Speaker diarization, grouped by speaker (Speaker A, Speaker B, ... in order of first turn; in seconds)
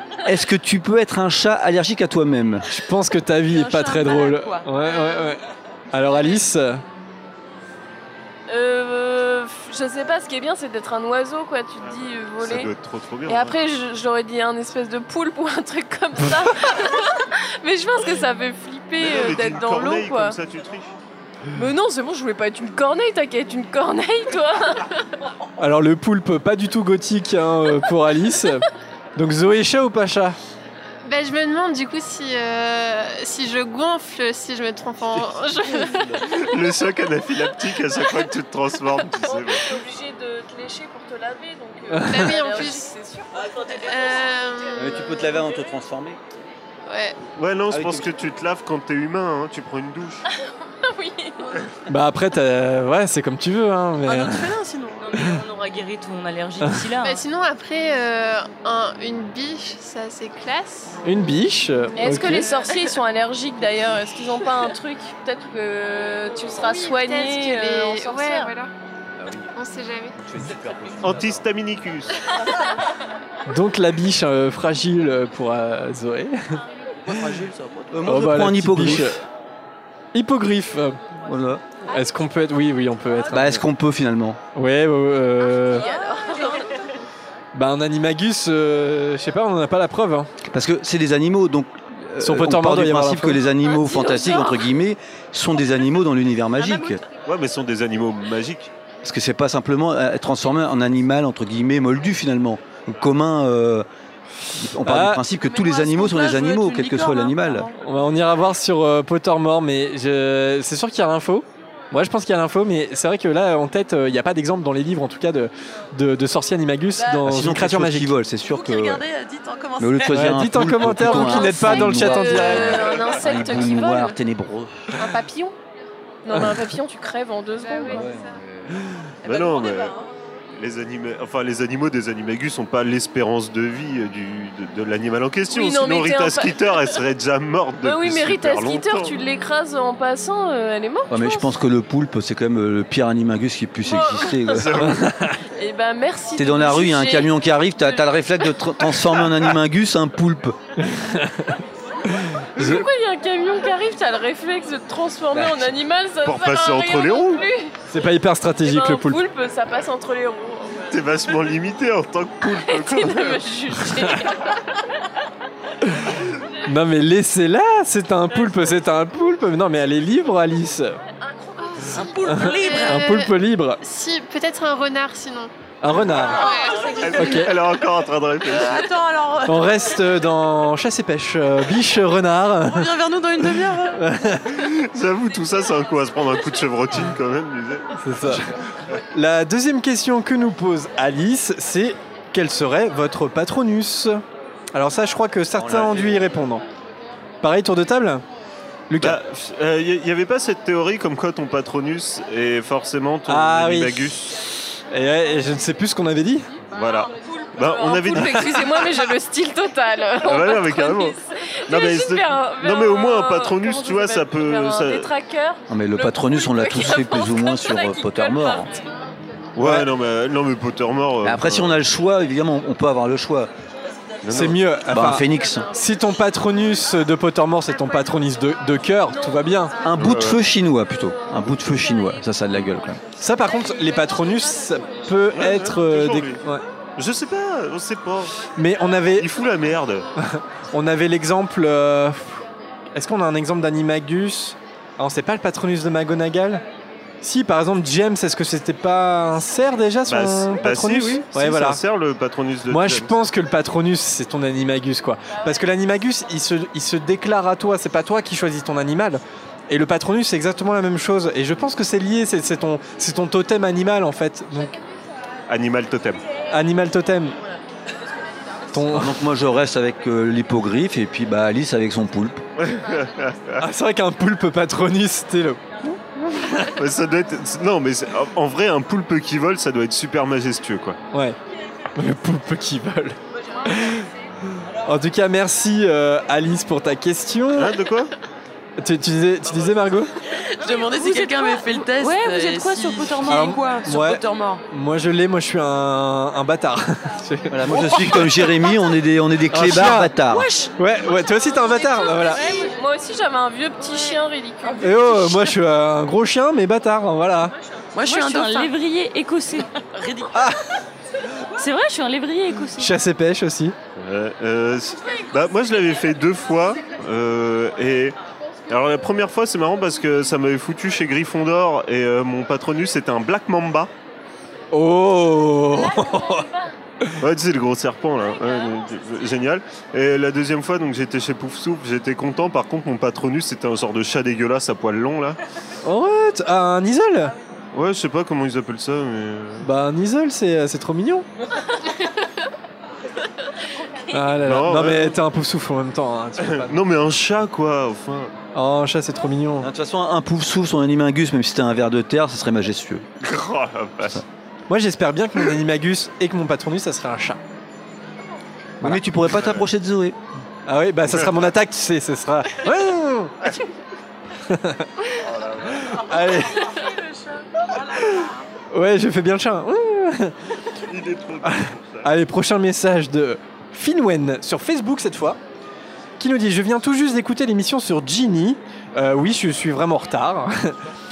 Speaker A: 0.2-2.6, 35.6-36.2, 44.8-46.2, 47.7-48.1, 69.2-69.5, 70.2-71.5, 77.9-79.2, 81.3-81.6, 83.3-84.4, 90.5-97.0, 99.0-103.9, 104.6-107.7, 117.2-119.0, 119.8-124.9, 127.9-128.7, 141.1-144.8, 146.4-150.6, 155.3-155.7, 195.5-196.3, 215.7-218.7, 221.2-223.5, 224.9-225.7, 229.8-233.0, 268.9-272.4, 297.5-300.5, 349.6-353.1, 358.8-360.2
Speaker B: 2.7-5.4, 5.9-6.8, 25.6-28.6, 29.2-30.4, 41.9-42.3, 51.9-54.5, 61.0-62.5, 73.5-76.4, 78.0-79.2, 80.1-81.0, 81.9-83.6, 84.5-85.9, 87.5-90.3, 92.2-93.5, 104.8-105.2, 107.8-118.1, 120.1-122.7, 144.8-145.4, 150.8-151.6, 157.9-159.2, 166.7-171.0, 172.3-173.8, 175.8-176.4, 177.2-177.5, 179.4-182.9, 183.4-184.6, 188.0-188.5, 189.1-194.2, 194.7-196.6, 197.4-198.2, 198.9-199.2, 203.3-204.4, 204.9-206.5, 219.6-219.9, 224.3-229.8, 233.2-236.6, 238.6-239.3, 240.2-242.4, 242.9-246.6, 247.2-251.8, 252.7-264.7, 266.5-267.4, 268.7-269.2, 273.6-276.8, 282.0-284.1, 284.8-287.7, 288.8-290.1, 293.3-298.4, 299.5-300.1, 300.8-302.5, 304.8-307.5, 312.8-313.8, 324.7-326.5, 335.9-337.3, 339.6-341.3, 344.1-346.8, 348.5-349.7, 354.7-357.4, 360.7-363.4, 364.5-364.9, 365.9-366.7, 368.7-370.4, 371.4-375.4, 376.2-380.8
Speaker C: 3.5-4.7, 54.0-55.2, 77.1-78.1, 85.8-86.6, 96.6-96.9, 105.3-107.7, 118.4-120.3, 121.2-121.5, 129.2-130.1, 171.8-173.0, 178.5-180.0, 182.6-184.0, 290.6-294.6, 302.4-302.7, 307.9-308.7, 309.9-310.3, 368.0-368.3
Speaker D: 8.5-12.7, 13.3-20.4, 21.6-24.9, 39.2-43.3, 50.9-51.4, 62.0-68.5, 85.7-86.6, 93.7-94.6, 121.4-124.2, 125.0-125.5, 126.2-128.1, 135.5-136.8, 137.8-141.5, 143.8-144.4, 145.6-148.2, 152.6-157.8, 158.6-160.9, 162.7-164.6, 171.2-172.2, 207.4-218.9, 302.6-305.4, 326.1-326.7
Speaker E: 12.4-13.6, 19.0-20.9, 36.3-39.6, 47.4-50.2, 71.0-72.2, 97.2-98.7, 129.2-129.9, 130.5-139.1, 144.4-145.0, 156.2-157.5, 160.9-163.4, 177.0-178.9, 184.5-188.4, 199.0-204.3, 206.7-208.9, 210.2-211.2, 211.7-215.1, 219.6-221.8, 224.2-224.6, 230.0-230.4, 235.3-236.4, 237.0-238.4, 239.2-240.1, 250.1-253.1, 265.5-266.2, 272.6-273.6, 276.7-281.0, 287.6-288.1, 314.0-318.2, 318.7-323.9, 327.2-335.4, 337.7-339.7, 344.4-345.2, 346.4-348.3, 353.2-354.2, 359.3-359.6, 361.1-361.4, 365.2-366.0, 370.9-372.1
Speaker F: 31.1-36.1, 42.0-42.9, 43.8-45.4, 46.9-47.2, 57.0-61.0, 62.0-63.0, 66.6-68.7, 69.5-70.2, 127.7-128.3, 171.7-175.5, 176.3-176.9
Speaker G: 55.1-57.2, 290.9-293.6, 300.3-300.7, 308.0-309.7, 311.6-312.9